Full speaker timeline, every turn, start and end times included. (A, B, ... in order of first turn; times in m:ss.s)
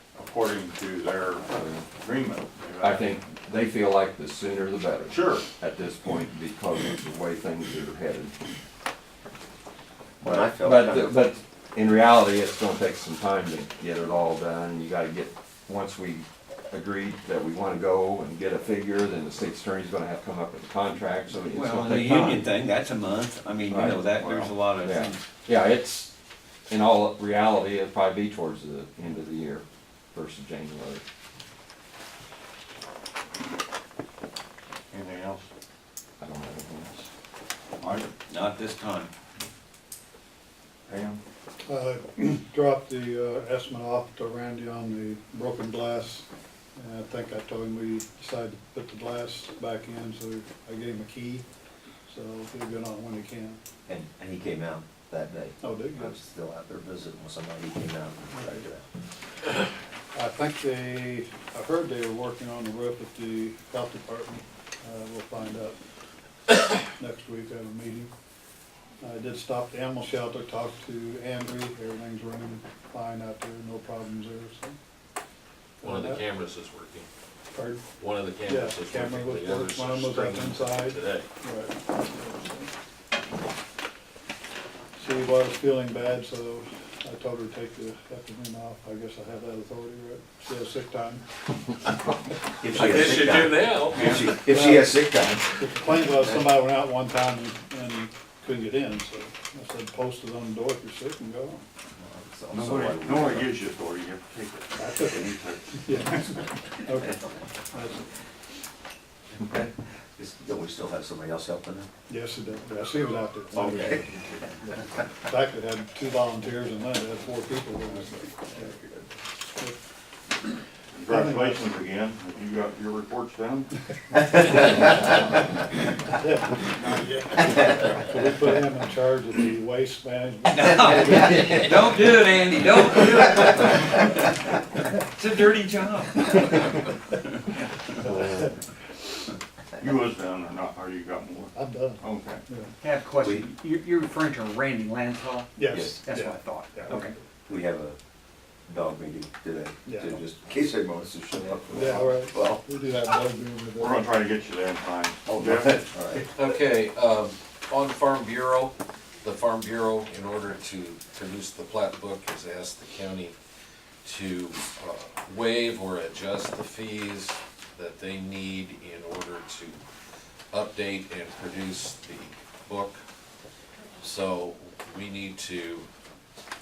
0:00.2-0:03.1 A
0:01.6-0:01.8 B
0:02.8-0:08.3 B
0:05.1-0:05.5 A
0:10.2-0:22.5 B
0:10.3-0:11.2 C
0:21.5-0:25.2 D
0:23.7-0:26.1 B
0:26.7-0:31.0 B
0:34.9-0:35.5 A
0:36.2-0:37.1 B
0:37.8-0:38.1 A
0:38.3-0:39.1 D
0:40.9-0:41.2 A
0:41.6-0:51.4 E
0:52.1-0:53.6 E
0:53.9-0:58.9 C
0:55.6-0:56.2 E
0:58.3-0:58.6 E
1:00.1-1:05.8 E
1:06.9-1:08.1 E
1:09.0-1:14.7 E
1:15.8-1:16.2 E
1:15.8-1:17.1 F
1:17.5-1:17.8 E
1:18.0-1:21.3 F
1:18.4-1:22.7 E
1:25.0-1:31.2 E
1:32.6-1:35.8 C
1:32.6-1:34.4 F
1:34.1-1:41.6 E
1:42.0-1:43.5 C
1:42.5-1:46.4 A
1:44.8-1:45.3 E
1:45.8-1:47.2 E
1:47.7-1:48.0 E
1:49.3-1:51.9 C
1:52.1-1:58.8 E
1:53.5-1:54.1 C
1:59.4-1:59.8 E
2:01.0-2:03.7 A
2:01.1-2:01.7 E
2:06.0-2:11.6 E
2:10.5-2:17.2 D
2:17.9-2:18.5 E
2:19.8-2:22.4 A
2:21.6-2:22.7 E
2:22.8-2:27.1 G
2:23.2-2:23.5 C
2:25.6-2:27.1 E
2:27.5-2:28.0 C
2:28.7-2:32.6 C
2:29.8-2:30.2 E
2:31.7-2:34.1 E
2:33.8-2:36.0 A
2:35.4-2:36.2 C
2:36.3-2:43.4 F
2:44.0-2:49.8 F
2:50.5-2:53.0 F
2:54.0-2:55.9 F